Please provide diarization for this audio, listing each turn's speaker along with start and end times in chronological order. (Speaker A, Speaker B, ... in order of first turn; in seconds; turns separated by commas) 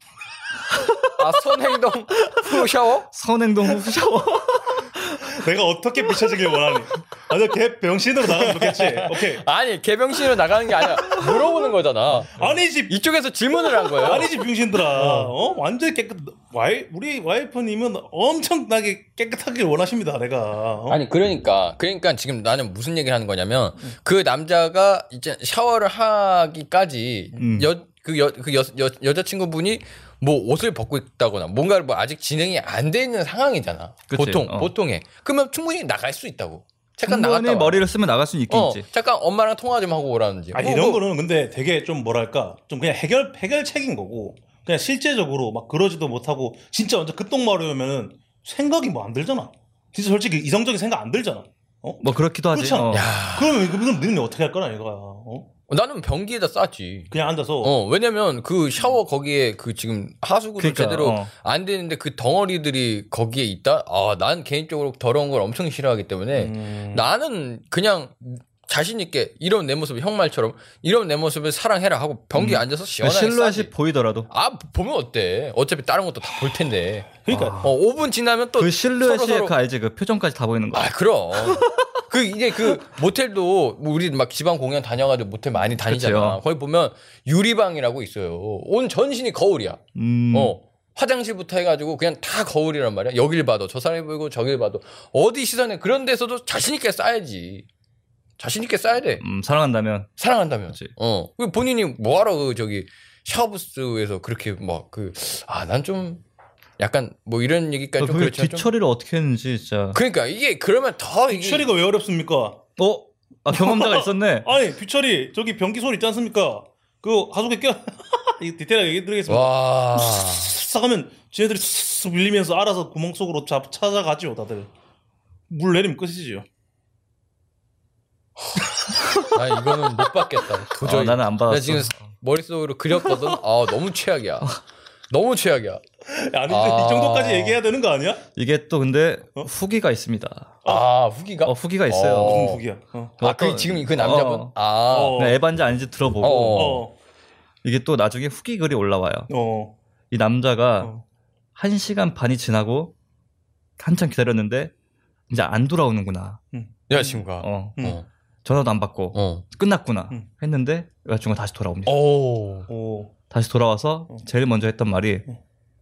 Speaker A: 0.7-1.2, Speaker B: 1.2-3.1, Speaker A: 2.2-5.3, Speaker C: 5.2-9.4, Speaker B: 8.3-14.3, Speaker C: 12.3-12.9, Speaker C: 14.0-21.0, Speaker B: 15.0-15.3, Speaker B: 20.9-37.9, Speaker A: 27.4-27.7, Speaker A: 34.1-34.7, Speaker A: 37.0-38.9, Speaker B: 38.5-41.0, Speaker C: 40.5-55.5, Speaker A: 52.0-53.1, Speaker B: 52.9-53.7, Speaker B: 55.7-73.7, Speaker C: 57.1-57.7, Speaker A: 60.6-61.3, Speaker C: 66.3-67.0, Speaker A: 72.3-74.3, Speaker B: 74.3-79.5, Speaker C: 77.2-77.6, Speaker A: 77.3-77.7, Speaker A: 78.6-81.9, Speaker B: 80.7-97.7, Speaker A: 85.8-86.4, Speaker A: 89.9-90.5, Speaker B: 98.4-99.2, Speaker A: 99.2-100.1, Speaker B: 100.2-106.2, Speaker B: 106.8-108.7, Speaker A: 108.0-110.0, Speaker B: 109.9-111.7, Speaker C: 111.3-112.6, Speaker A: 112.8-114.5, Speaker C: 113.5-124.7, Speaker B: 119.3-120.5, Speaker C: 125.5-126.4, Speaker B: 129.3-134.6, Speaker A: 130.8-132.1, Speaker A: 133.0-133.4, Speaker B: 135.1-135.8, Speaker C: 136.1-138.2, Speaker B: 136.5-137.6, Speaker A: 138.3-140.6, Speaker B: 140.7-142.6, Speaker A: 141.4-142.5, Speaker C: 142.2-143.2, Speaker A: 143.2-144.5, Speaker B: 143.2-145.3, Speaker C: 144.9-145.4, Speaker A: 145.1-146.8, Speaker B: 146.2-146.8, Speaker C: 146.5-146.9, Speaker A: 147.6-149.3, Speaker C: 149.3-149.7, Speaker A: 150.1-150.9, Speaker A: 151.6-152.9, Speaker A: 153.8-154.7, Speaker A: 155.3-156.4, Speaker C: 156.5-157.2, Speaker B: 156.9-158.1, Speaker A: 157.4-157.8, Speaker A: 158.4-161.9, Speaker B: 159.1-159.4, Speaker B: 161.8-162.7, Speaker C: 162.7-163.1, Speaker A: 163.3-165.2